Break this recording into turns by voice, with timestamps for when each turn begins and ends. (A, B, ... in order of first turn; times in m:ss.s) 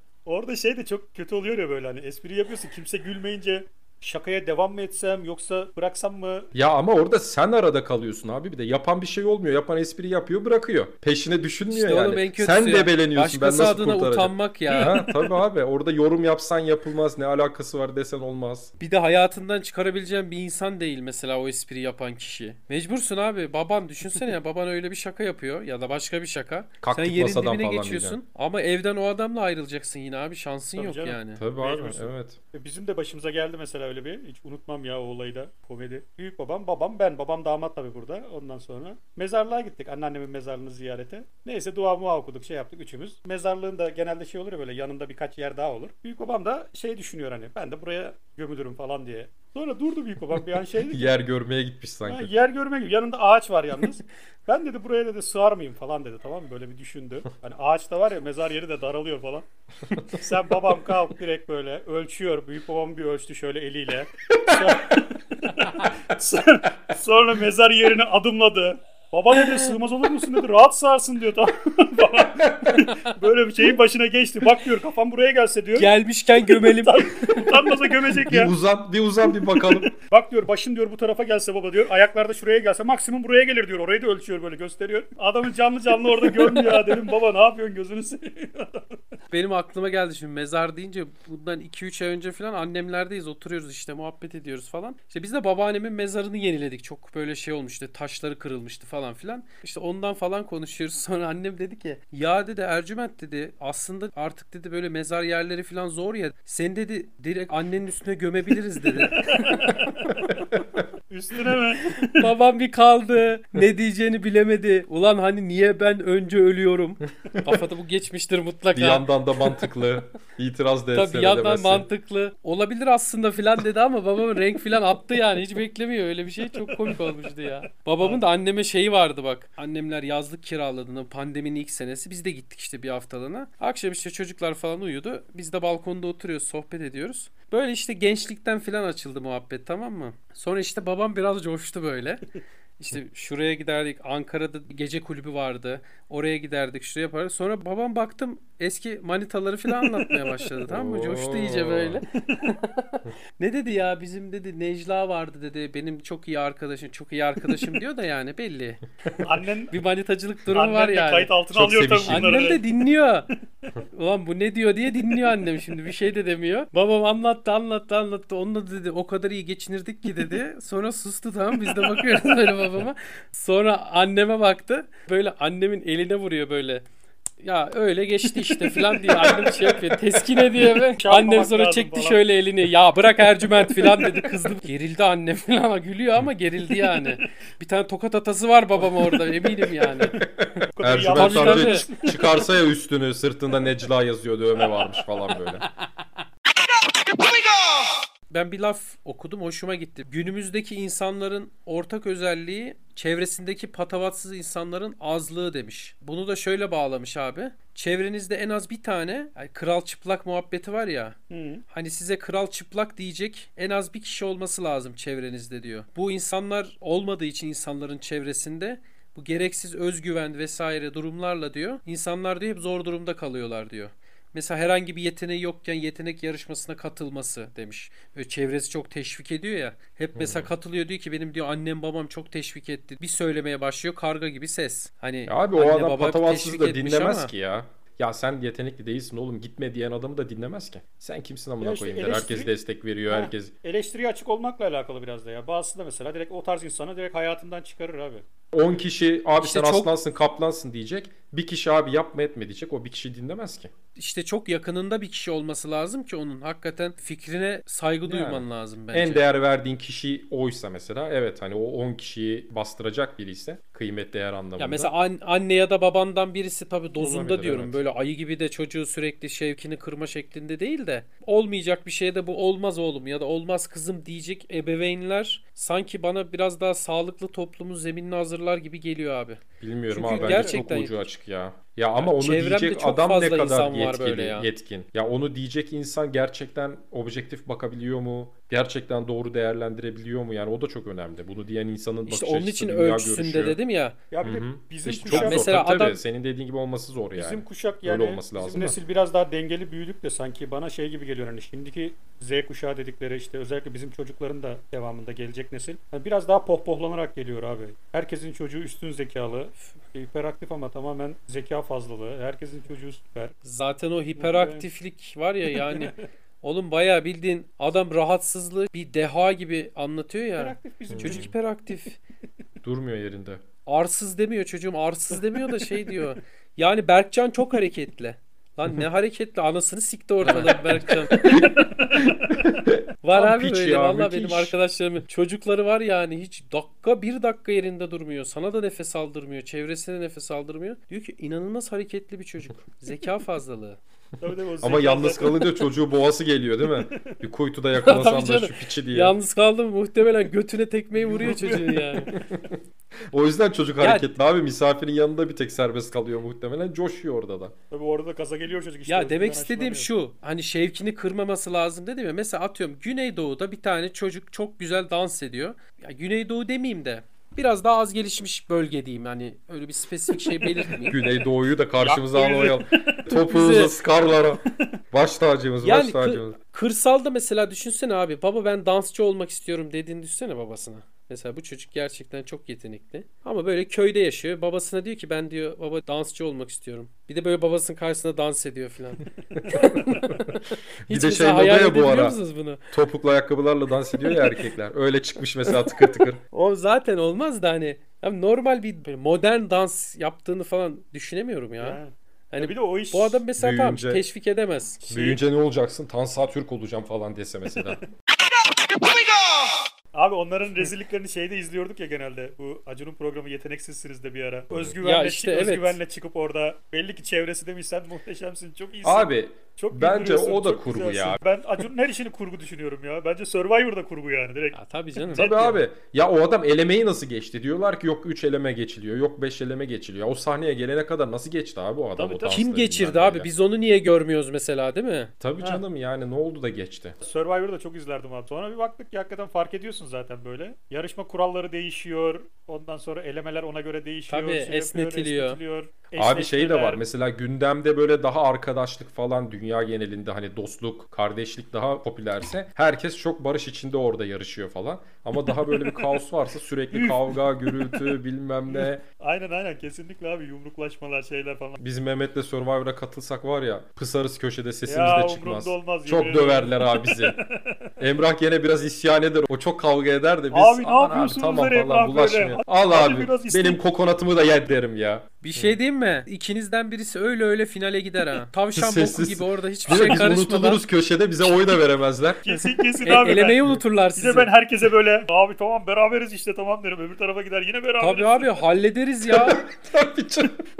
0:00.2-0:06.5 A
0:06.5-0:18.7 B
0:11.7-0:15.0 C
0:14.7-0:15.2 A
0:18.8-0:31.4 C
0:26.8-0:28.2 B
0:30.8-0:51.1 A
0:31.4-0:32.4 B
0:50.9-0:52.3 B
0:52.0-0:59.4 A
1:00.1-1:18.5 A
1:15.8-1:17.6 C
1:18.2-1:19.9 B
1:19.2-1:29.0 A
1:29.3-1:50.3 C
1:49.1-1:50.4 A
1:51.1-1:52.3 A
1:52.1-1:59.6 C
1:58.7-2:01.8 B
2:00.9-2:22.2 C
2:22.8-2:38.8 C
2:29.8-2:30.4 A
2:30.7-2:32.0 B
2:39.2-2:39.7 A
2:39.7-2:41.3 C
2:40.5-2:42.6 A
2:41.5-2:42.4 B
2:42.1-2:43.3 C
2:43.9-2:56.8 C
2:51.6-2:52.1 A
2:57.4-3:10.1 C
2:58.4-3:02.2 A
3:03.5-3:04.3 A
3:10.0-3:12.5 A
3:10.8-3:15.6 B
3:11.1-3:11.8 C
3:18.3-3:31.2 C
3:31.3-3:31.6 A
3:31.7-3:57.3 C
3:50.2-3:50.5 B
3:55.3-4:03.5 B
4:01.6-4:02.5 A
4:03.1-4:08.2 A
4:08.5-4:13.7 B
4:09.4-4:09.9 C
4:14.0-4:19.2 C
4:18.1-4:24.9 B
4:24.6-4:41.0 C
4:27.0-4:27.8 B
4:39.6-4:53.6 B
4:40.1-4:40.6 A
4:42.0-4:44.5 C
4:52.0-4:54.0 C
4:54.1-4:55.4 A
4:54.2-4:58.8 B
4:55.1-4:56.0 C
4:57.1-5:13.3 A
5:13.4-5:22.0 C
5:14.2-5:14.6 A
5:15.5-5:15.9 A
5:20.4-5:21.3 A
5:20.9-5:21.3 B
5:22.6-5:23.4 B
5:23.6-5:31.3 C
5:30.2-5:31.5 B
5:31.3-5:32.4 A
5:32.1-5:34.6 B
5:33.0-5:43.8 C
5:44.2-5:45.7 A
5:44.6-5:49.2 B
5:46.7-5:47.1 A
5:47.8-5:52.1 C
5:50.9-5:51.9 A
5:52.1-5:52.6 B
5:53.1-5:57.5 B
5:53.8-5:54.1 C
5:57.7-5:59.9 A
5:58.9-6:11.0 C
6:10.2-6:11.1 A
6:10.9-6:16.4 B
6:11.8-6:13.0 A
6:13.1-6:13.9 C
6:15.6-6:32.6 C
6:29.4-6:30.2 B
6:30.9-6:32.2 B
6:32.7-6:36.2 B
6:34.1-6:34.4 C
6:36.3-6:41.8 C
6:41.6-6:43.2 A
6:42.3-6:44.8 C
6:43.4-6:44.0 B
6:44.8-6:45.2 A
6:44.9-6:47.8 B
6:49.9-7:05.5 A
6:54.8-6:55.8 C
6:58.8-7:01.2 B
7:04.5-7:05.6 C
7:05.1-7:13.3 B
7:12.0-7:15.1 C
7:15.2-7:17.0 B
7:17.0-7:26.8 A
7:24.1-7:25.4 C
7:26.0-7:38.8 B
7:35.5-7:35.9 A
7:36.7-7:38.0 A
7:38.5-7:41.6 A
7:41.6-7:47.2 B
7:44.7-7:47.6 A
7:47.8-7:55.6 B
7:50.3-7:53.6 A
7:55.2-8:00.6 C
7:58.5-8:02.2 B
8:02.2-8:03.4 A
8:02.8-8:04.3 C
8:04.0-8:08.4 A
8:07.8-8:09.4 C
8:09.1-8:10.4 B